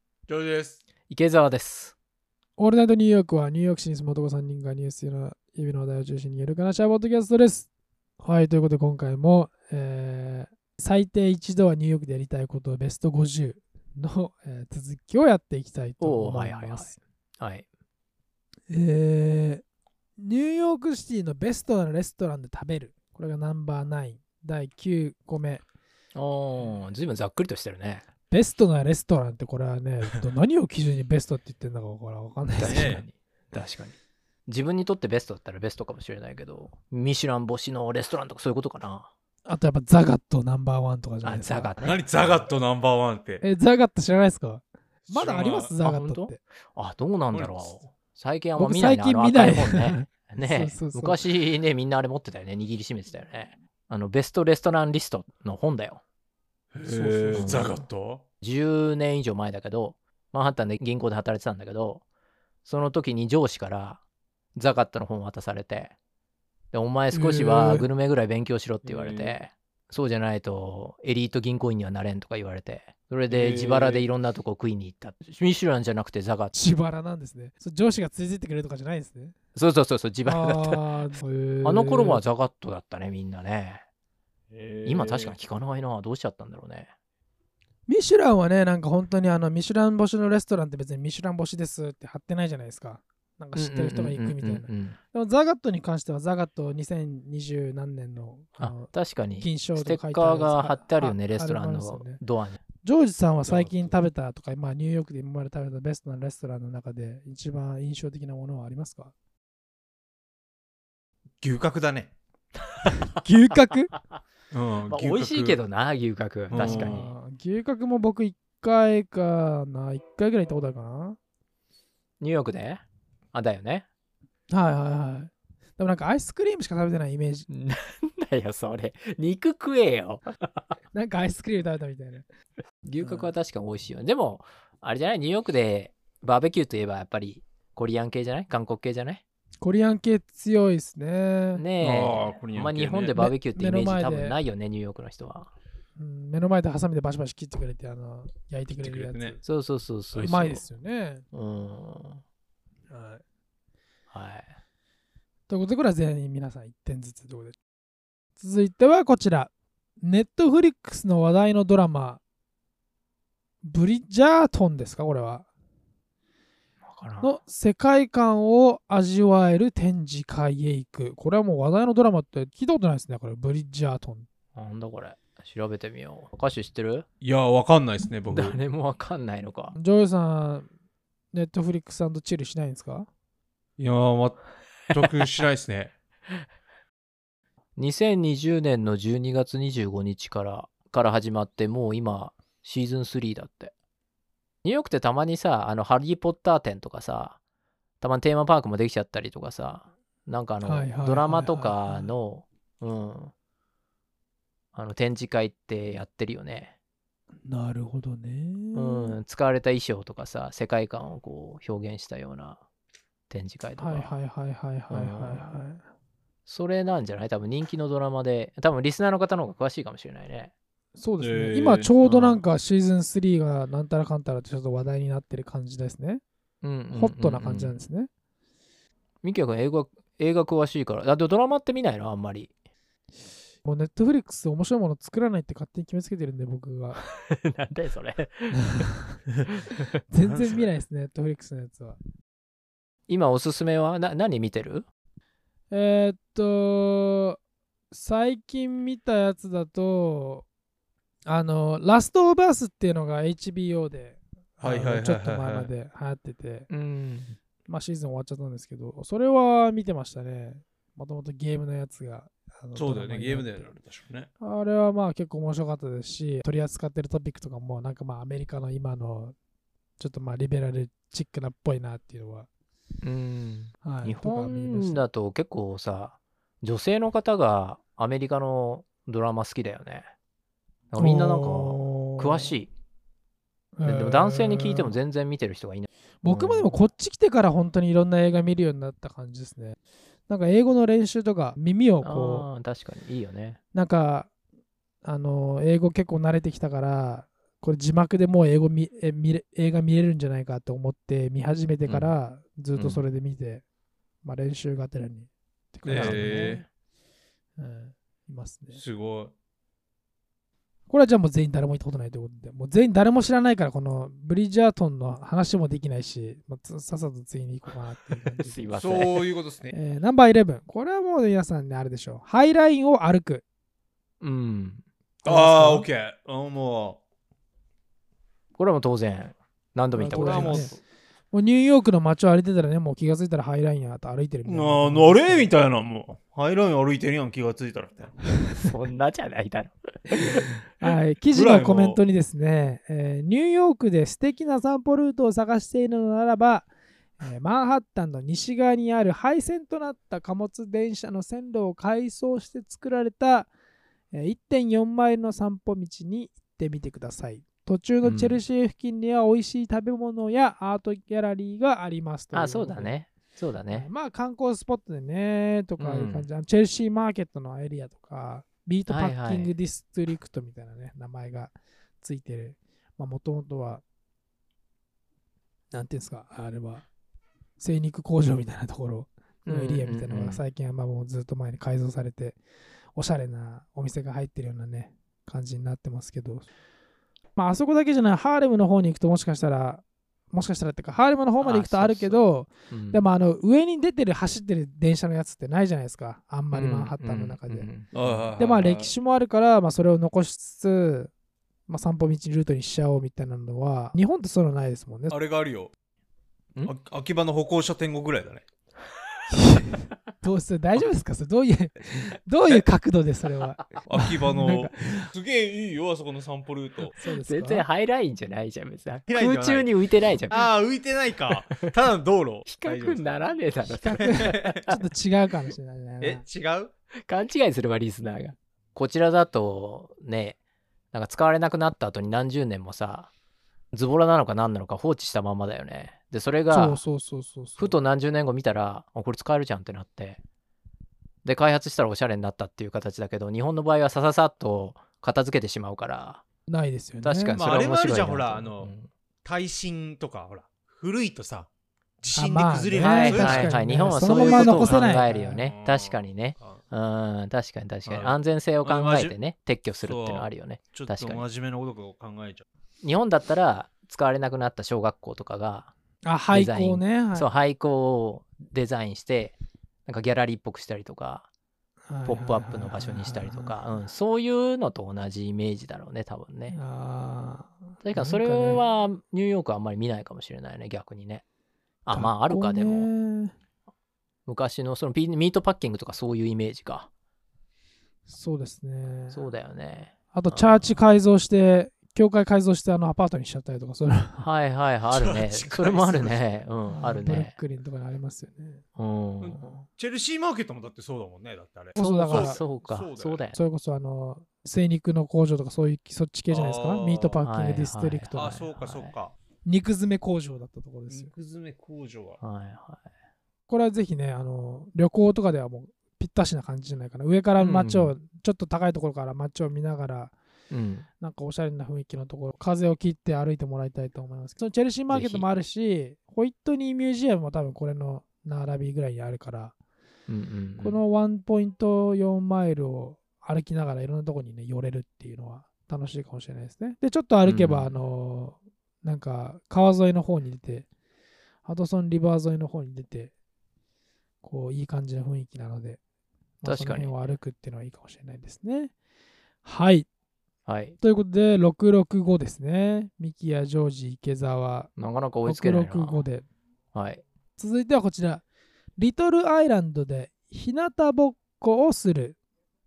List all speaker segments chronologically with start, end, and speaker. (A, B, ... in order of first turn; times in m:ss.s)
0:00.3-0:00.8 A
0:01.1-0:01.9 B
0:02.6-0:07.7 C
0:08.2-0:17.0 C
0:16.0-0:17.6 B
0:18.7-0:19.6 C
0:20.2-0:25.6 C
0:26.1-0:28.0 B
0:28.3-0:33.0 C
0:32.6-0:33.9 B
0:32.6-0:33.0 A
0:34.5-0:39.1 B
0:39.4-0:41.7 C
0:41.2-0:42.0 B
0:41.8-0:43.4 A
0:43.4-0:46.4 C
0:45.1-0:45.7 A
0:45.8-0:56.0 B
0:47.3-0:47.8 A
0:48.6-0:51.2 C
0:56.7-0:58.2 A
0:56.8-0:57.7 C
0:57.3-0:57.8 B
0:58.4-1:02.0 B
1:02.6-1:04.0 B
1:04.5-1:05.9 B
1:06.7-1:16.5 B
1:07.1-1:07.9 C
1:08.8-1:09.4 A
1:13.3-1:14.1 A
1:16.5-1:19.3 C
1:19.5-1:20.8 B
1:20.2-1:22.2 C
1:21.6-1:23.8 B
1:24.5-1:25.3 A
1:24.8-1:26.9 B
1:27.9-1:42.2 C
1:33.5-1:35.0 B
1:38.6-1:42.6 B
1:42.8-1:49.1 C
1:43.4-1:43.9 A
1:51.4-1:52.1 A
1:53.2-1:53.9 C
1:53.9-1:54.2 B
1:54.5-1:55.6 A
1:54.9-1:57.1 B
1:56.5-1:57.1 A
1:56.5-2:01.2 C
2:02.2-2:03.8 B
2:04.5-2:07.5 C
2:07.5-2:10.8 B
2:10.9-2:12.2 C
2:12.8-2:19.2 B
2:13.0-2:13.3 C
2:19.6-2:21.6 C
2:21.6-2:25.5 B
2:21.8-2:23.1 A
2:23.2-2:24.4 C
2:26.0-2:29.4 C
2:28.8-2:29.4 A
2:29.4-2:30.6 B
2:30.2-2:31.2 C
2:31.3-2:32.2 B
2:32.9-2:33.2 C
2:34.1-2:34.5 B
2:35.5-2:37.6 C
2:38.4-2:42.2 C
2:43.6-2:45.5 C
2:46.8-2:47.3 B
2:47.2-2:54.3 C
2:54.6-2:57.0 B
2:57.2-2:58.6 A
2:58.3-2:59.8 B
2:59.7-3:00.7 C
3:01.3-3:03.1 C
3:03.8-3:05.9 A
3:07.8-3:13.7 B
3:14.6-3:17.4 B
3:18.0-3:23.3 B
3:20.6-3:22.1 C
3:24.7-3:26.7 B
3:27.4-3:29.2 C
3:28.7-3:32.6 B
3:33.3-3:34.1 B
3:33.8-3:35.8 C
3:34.9-3:35.5 B
3:36.4-3:40.5 B
3:41.0-3:46.2 C
3:41.2-3:41.9 A
3:42.0-3:42.4 B
3:46.6-3:47.7 B
3:46.9-3:48.1 C
3:49.2-3:52.5 B
3:53.6-3:57.0 C
3:57.0-3:58.9 B
4:00.1-4:02.0 C
4:00.2-4:00.5 A
4:03.1-4:04.8 B
4:05.7-4:07.4 C
4:07.9-4:10.4 C
4:11.3-4:16.7 C
4:14.6-4:15.7 A
4:16.7-4:17.4 B
4:17.7-4:23.7 C
4:22.7-4:24.3 A
4:24.4-4:29.3 C
4:30.0-4:32.5 C
4:33.0-4:40.1 B
4:33.8-4:35.0 C
4:40.9-4:42.7 B
4:41.0-4:42.6 C
4:43.8-4:45.0 C
4:43.8-4:46.7 B
4:46.2-4:52.5 C
4:52.0-4:53.6 B
4:53.7-4:54.3 C
4:55.0-5:03.6 C
5:01.8-5:02.1 B
5:02.7-5:03.0 B
5:04.2-5:06.6 C
5:05.8-5:06.6 A
5:05.9-5:06.6 B
5:07.6-5:08.8 C
5:08.7-5:09.3 A
5:10.9-5:19.1 C
5:18.4-5:19.2 B
5:18.8-5:19.7 A
5:19.7-5:23.4 C
5:24.2-5:24.8 B
5:25.2-5:25.9 C
5:25.2-5:27.0 A
5:28.6-5:30.7 B
5:29.9-5:30.7 C
5:30.1-5:30.8 A
5:31.3-5:35.5 C
5:34.4-5:38.2 A
5:38.6-5:40.5 B
5:40.2-5:46.7 C
5:41.3-5:42.0 A
5:47.2-5:53.5 C
5:54.1-6:02.9 C
5:58.0-5:58.4 B
6:02.3-6:03.9 B
6:03.7-6:13.8 C
6:05.8-6:06.3 B
6:08.9-6:09.5 B
6:15.7-6:16.8 C
6:17.6-6:22.4 C
6:19.4-6:20.4 B
6:22.9-6:26.4 C
6:27.4-6:37.7 C
6:31.4-6:33.0 B
6:36.5-6:38.3 B
6:37.9-6:38.9 A
6:38.4-6:41.1 C
6:41.7-6:45.2 C
6:45.1-6:45.7 A
6:46.6-6:48.4 A
6:49.3-6:55.1 C
6:53.9-6:57.0 A
6:57.0-6:57.6 C
6:57.1-7:00.5 B
6:59.1-6:59.7 A
7:00.3-7:03.1 A
7:01.3-7:01.6 B
7:02.4-7:04.8 B
7:03.6-7:06.2 C
7:04.0-7:04.6 A
7:06.0-7:06.7 A
7:07.1-7:10.4 B
7:10.9-7:13.1 B
7:13.7-7:16.8 B
7:16.5-7:17.8 C
7:17.6-7:20.2 B
7:21.2-7:26.2 B
7:26.5-7:27.4 C
7:27.0-7:28.9 B
7:27.4-7:28.7 A
7:29.2-7:31.5 A
7:32.0-7:36.6 A
7:32.1-7:35.4 C
7:32.8-7:41.2 B
7:37.8-7:39.1 A
7:39.8-7:42.4 A
7:42.8-7:45.7 B
7:46.0-7:47.3 C
7:46.3-7:51.3 B
7:51.9-7:53.5 C
7:52.0-7:56.6 B
7:56.5-7:58.6 C
7:57.8-8:01.2 B
8:01.8-8:02.9 B
8:01.9-8:03.3 C
8:04.2-8:06.9 B
8:08.1-8:09.2 C
8:09.1-8:10.8 B
8:10.1-8:14.2 C
8:14.2-8:17.3 B
8:14.9-8:16.2 A
8:16.7-8:18.6 C
8:18.8-8:19.5 B
8:19.2-8:23.2 A
8:21.8-8:22.4 C
8:21.8-8:23.4 B
8:23.3-8:28.3 C
8:26.3-8:27.2 A
8:27.2-8:28.9 B
8:28.1-8:29.1 A
8:29.4-8:31.1 C
8:30.9-8:32.2 A
8:32.2-8:32.8 B
8:33.5-8:40.1 C
8:37.4-8:37.9 B
8:40.5-8:40.9 B
8:41.0-8:49.5 C
8:44.9-8:45.2 B
8:50.1-8:50.8 B
8:50.6-9:00.7 C
8:57.2-8:57.8 B
9:01.4-9:03.1 C
9:04.2-9:05.8 C
9:06.4-9:08.7 C
9:06.4-9:07.1 B
9:09.4-9:09.9 C
9:10.4-9:10.8 B
9:10.8-9:14.7 C
9:14.8-9:16.0 B
9:15.2-9:16.2 C
9:16.7-9:17.0 B
9:17.4-9:18.2 C
9:18.8-9:22.2 C